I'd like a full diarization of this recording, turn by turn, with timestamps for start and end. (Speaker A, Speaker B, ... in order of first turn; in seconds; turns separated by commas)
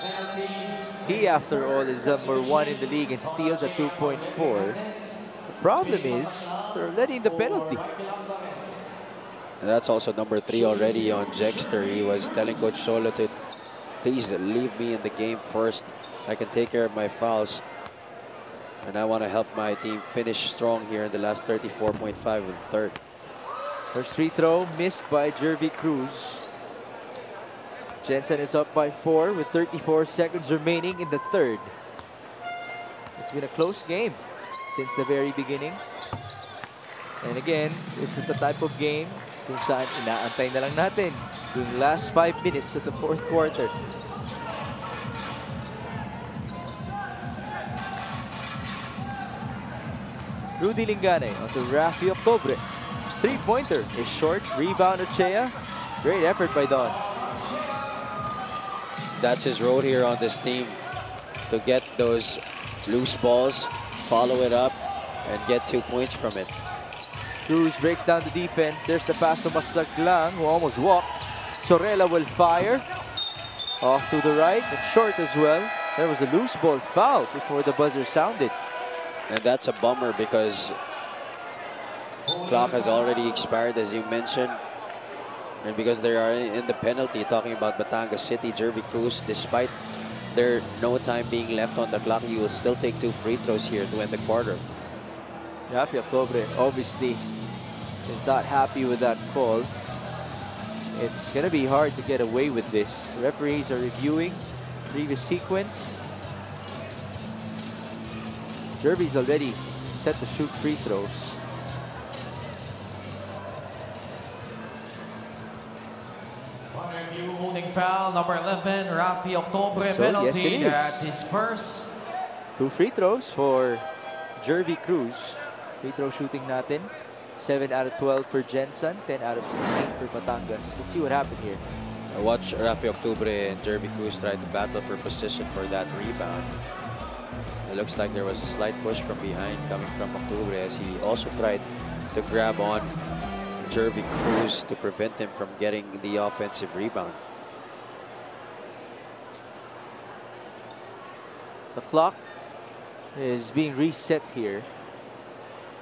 Speaker A: 1.0-4.8, Speaker A: 5.5-7.9, Speaker B: 9.6-13.3, Speaker B: 14.0-17.6, Speaker B: 18.8-23.0, Speaker A: 23.9-26.4, Speaker A: 28.0-31.7, Speaker A: 33.2-35.8, Speaker A: 37.2-43.7, Speaker A: 50.6-52.6, Speaker A: 53.2-57.0, Speaker B: 59.2-60.8, Speaker B: 61.5-66.5, Speaker A: 67.5-72.8, Speaker A: 73.8-78.5, Speaker B: 79.3-80.8, Speaker B: 82.4-84.6, Speaker B: 85.6-89.7, Speaker B: 90.3-94.6, Speaker A: 95.7-97.2, Speaker A: 98.1-99.7, Speaker A: 100.9-106.0, Speaker A: 108.8-111.4, Speaker C: 116.7-121.9, Speaker A: 119.9-121.1, Speaker A: 122.6-123.9, Speaker A: 124.4-131.6, Speaker B: 132.1-136.5, Speaker B: 137.7-142.9, Speaker B: 143.6-147.2, Speaker A: 151.8-152.2, Speaker A: 153.2-154.7